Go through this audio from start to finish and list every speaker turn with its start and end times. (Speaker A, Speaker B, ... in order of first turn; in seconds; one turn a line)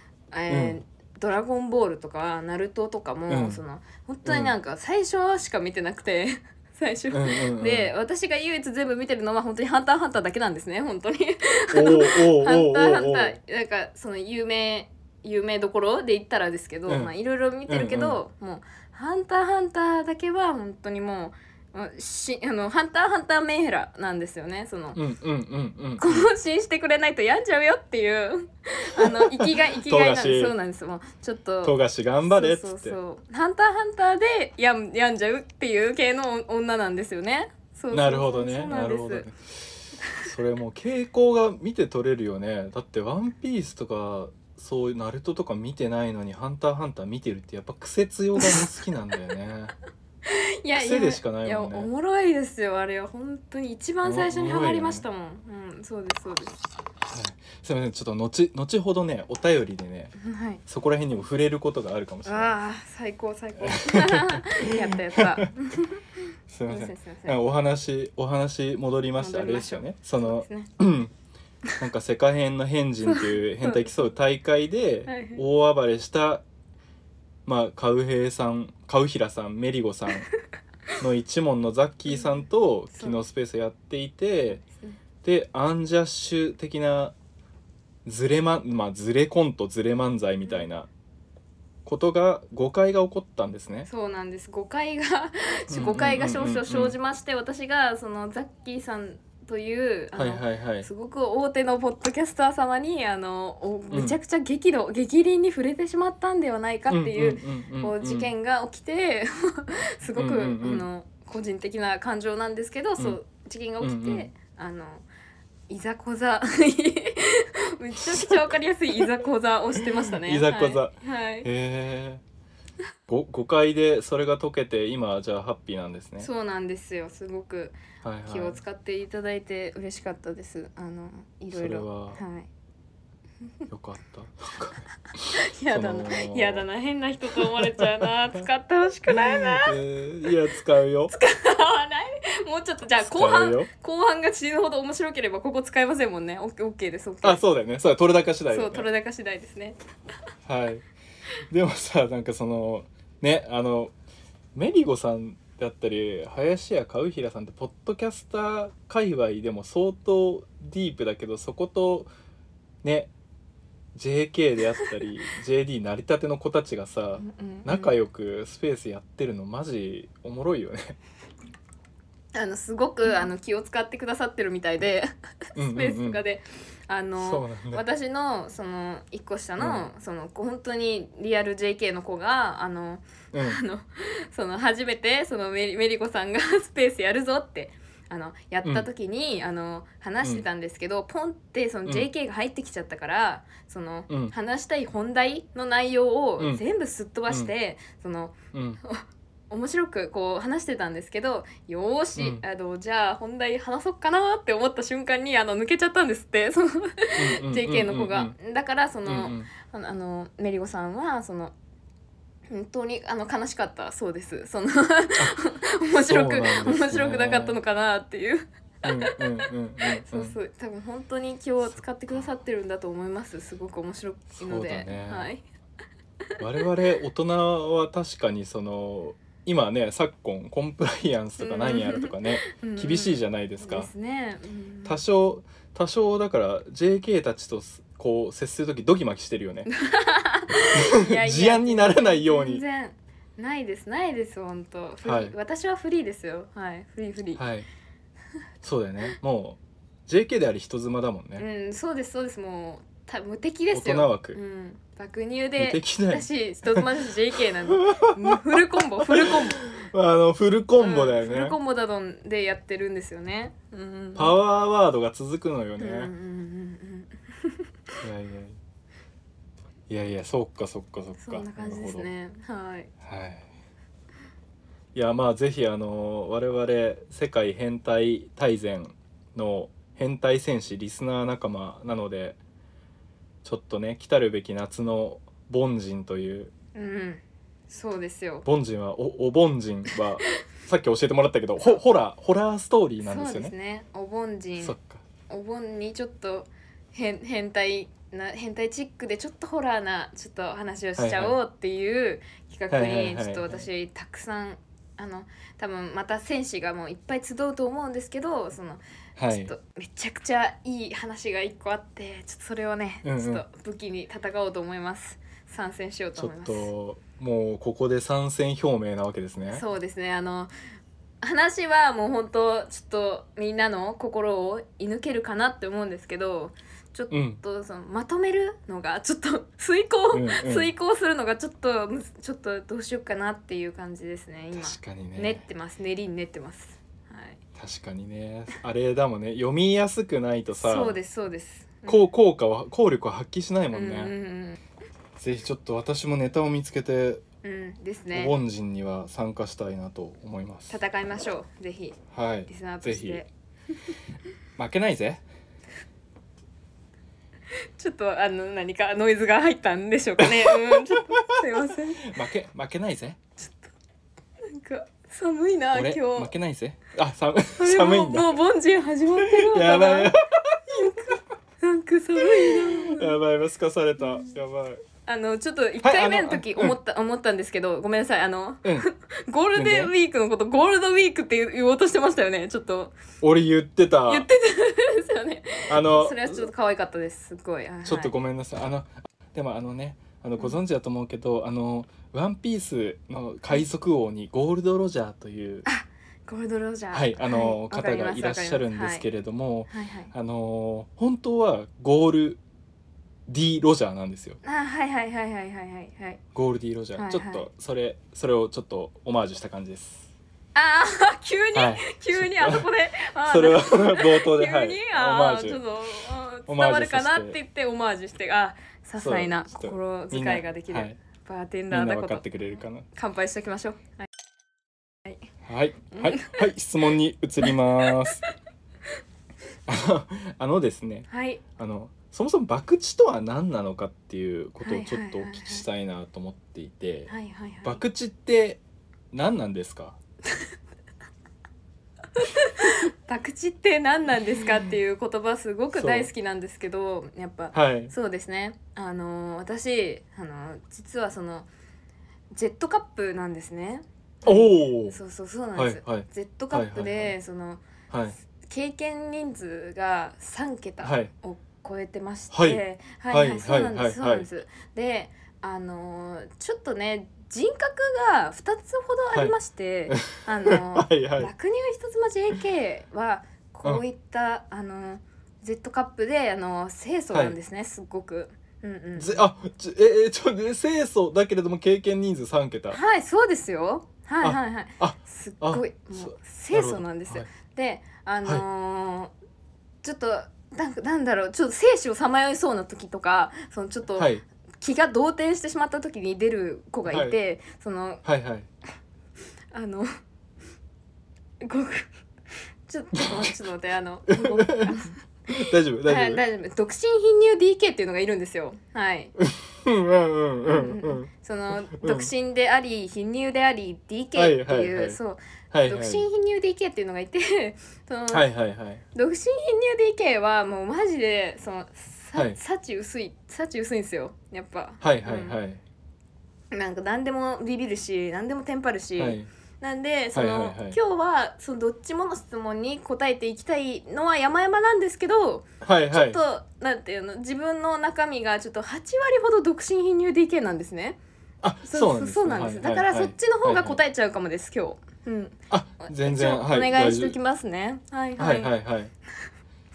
Speaker A: 0.3-25.0
Speaker B: 0.5-0.8
Speaker B: 3.3-3.6
Speaker B: 4.2-4.5
Speaker B: 7.1-7.9
Speaker B: 11.7-13.4
Speaker B: 17.7-18.2
Speaker B: 24.9-26.3
Speaker A: 26.0-39.3
Speaker B: 28.9-30.5
Speaker B: 31.6-33.0
Speaker B: 37.9-49.7
Speaker A: 50.2-56.6
Speaker B: 50.8-51.9
Speaker B: 54.0-55.0
Speaker B: 57.1-60.1
Speaker A: 60.2-60.6
Speaker B: 60.7-62.5
Speaker A: 62.2-66.0
Speaker B: 63.6-65.5
Speaker B: 66.5-71.1
Speaker A: 66.7-67.4
Speaker A: 69.2-70.7
Speaker B: 71.8-76.4
Speaker A: 73.0-73.9
Speaker A: 75.0-75.4
Speaker B: 77.5-80.3
Speaker B: 81.0-84.6
Speaker A: 82.9-83.2
Speaker A: 84.7-85.0
Speaker B: 85.2-87.1
Speaker B: 88.0-90.9
Speaker B: 91.8-93.9
Speaker A: 93.9-115.0
Speaker B: 95.7-97.0
Speaker B: 100.2-100.9
Speaker B: 103.9-104.2
Speaker B: 106.9-108.3
Speaker B: 110.2-110.9
Speaker B: 113.8-114.3
Speaker A: 115.7-121.5
Speaker B: 118.0-119.0
Speaker B: 119.8-122.2
Speaker B: 123.1-126.3
Speaker A: 126.2-127.8
Speaker B: 128.0-128.6
Speaker A: 128.3-132.5
Speaker B: 131.5-132.2
Speaker B: 133.7-136.7
Speaker A: 135.3-139.8
Speaker B: 137.4-138.4
Speaker B: 139.1-141.1
Speaker A: 141.1-147.4
Speaker B: 143.0-143.7
Speaker B: 147.2-148.9
Speaker A: 148.5-149.8
Speaker B: 150.4-150.8
Speaker B: 151.5-153.9
Speaker B: 154.5-162.1
Speaker B: 162.8-163.1
Speaker B: 163.9-171.0
Speaker A: 167.2-167.9
Speaker A: 172.3-211.5
Speaker B: 175.6-176.2
Speaker B: 177.2-177.8
Speaker B: 179.6-179.9
Speaker B: 183.3-183.6
Speaker B: 194.1-194.3
Speaker B: 198.5-198.8
Speaker B: 202.2-202.4
Speaker B: 207.2-208.3
Speaker B: 209.1-209.5
Speaker A: 212.5-219.2
Speaker B: 215.9-217.6
Speaker B: 218.8-220.3
Speaker A: 220.0-225.4
Speaker B: 224.3-225.3
Speaker B: 226.4-233.9
Speaker A: 231.4-235.0
Speaker B: 234.8-239.7
Speaker A: 239.7-247.4
Speaker B: 240.8-242.6
Speaker B: 245.0-245.3
Speaker B: 247.4-247.7
Speaker B: 248.6-251.4
Speaker A: 251.4-259.6
Speaker B: 253.7-254.4
Speaker B: 255.6-261.6
Speaker A: 260.8-264.4
Speaker B: 264.1-266.1
Speaker A: 265.8-268.0
Speaker B: 268.0-268.6
Speaker B: 269.9-272.1
Speaker A: 271.2-272.9
Speaker B: 273.0-273.5
Speaker B: 274.9-282.4
Speaker B: 283.4-286.5
Speaker A: 286.8-288.4
Speaker B: 288.4-293.5
Speaker A: 293.0-294.8
Speaker B: 294.6-295.0
Speaker A: 295.3-316.7
Speaker B: 301.0-301.4
Speaker B: 302.7-303.7
Speaker B: 309.2-309.5
Speaker B: 313.0-313.4
Speaker B: 316.1-319.6
Speaker A: 319.5-320.5
Speaker A: 321.2-337.4
Speaker B: 327.1-327.4
Speaker B: 330.1-330.7
Speaker B: 334.6-335.4
Speaker B: 337.6-340.9
Speaker A: 340.6-342.0
Speaker B: 341.9-344.1
Speaker A: 343.7-344.6
Speaker B: 345.2-347.2
Speaker A: 347.4-348.3
Speaker B: 348.1-350.7
Speaker A: 350.7-353.3
Speaker B: 352.1-353.2
Speaker B: 354.6-355.2
Speaker A: 357.5-362.2
Speaker B: 360.2-361.4
Speaker B: 362.0-363.2
Speaker A: 364.4-366.3
Speaker B: 365.7-368.3
Speaker A: 367.6-370.1
Speaker B: 369.2-371.0
Speaker A: 370.7-373.1
Speaker B: 372.2-374.8
Speaker A: 375.0-382.9
Speaker B: 375.8-376.8
Speaker B: 379.5-379.9
Speaker B: 383.2-384.3
Speaker A: 384.1-388.1
Speaker B: 385.7-386.5
Speaker B: 387.8-395.6
Speaker A: 395.6-399.0
Speaker B: 396.9-402.4
Speaker A: 399.7-400.1
Speaker B: 403.3-404.4
Speaker A: 404.4-406.2
Speaker B: 406.3-410.1
Speaker A: 406.9-407.5
Speaker A: 410.5-422.3
Speaker B: 411.5-412.7
Speaker B: 413.2-415.6
Speaker B: 416.5-417.4
Speaker B: 419.0-421.0
Speaker B: 421.7-422.9
Speaker A: 422.9-424.1
Speaker B: 425.5-428.2
Speaker A: 425.9-426.4
Speaker B: 429.7-437.1
Speaker A: 431.1-431.4
Speaker A: 434.6-435.6
Speaker A: 437.1-437.8
Speaker B: 437.6-438.6
Speaker B: 439.1-440.0
Speaker A: 442.2-451.5
Speaker B: 445.8-446.1
Speaker B: 447.5-447.9
Speaker A: 452.3-457.6
Speaker B: 454.2-455.0
Speaker B: 455.6-457.1
Speaker B: 457.9-458.1
Speaker A: 458.4-479.2
Speaker B: 460.8-461.1
Speaker B: 462.3-464.3
Speaker B: 469.9-471.3
Speaker B: 479.0-482.8
Speaker A: 482.7-489.1
Speaker B: 484.2-487.3
Speaker A: 489.8-498.0
Speaker B: 494.0-494.2
Speaker B: 496.9-497.1
Speaker B: 498.0-498.5
Speaker A: 499.5-499.9
Speaker A: 501.4-501.9
Speaker A: 502.7-509.1
Speaker B: 502.9-503.3
Speaker B: 504.1-506.2
Speaker B: 509.2-511.1
Speaker A: 510.4-518.3
Speaker B: 511.6-512.1
Speaker B: 514.1-515.0
Speaker B: 515.5-516.0
Speaker B: 518.1-518.8
Speaker A: 518.9-525.4
Speaker B: 524.8-525.6
Speaker A: 526.5-541.0
Speaker B: 529.0-529.3
Speaker B: 530.1-530.8
Speaker B: 535.6-536.2
Speaker B: 541.4-543.8
Speaker A: 541.6-548.5
Speaker B: 545.5-547.1
Speaker B: 548.2-548.9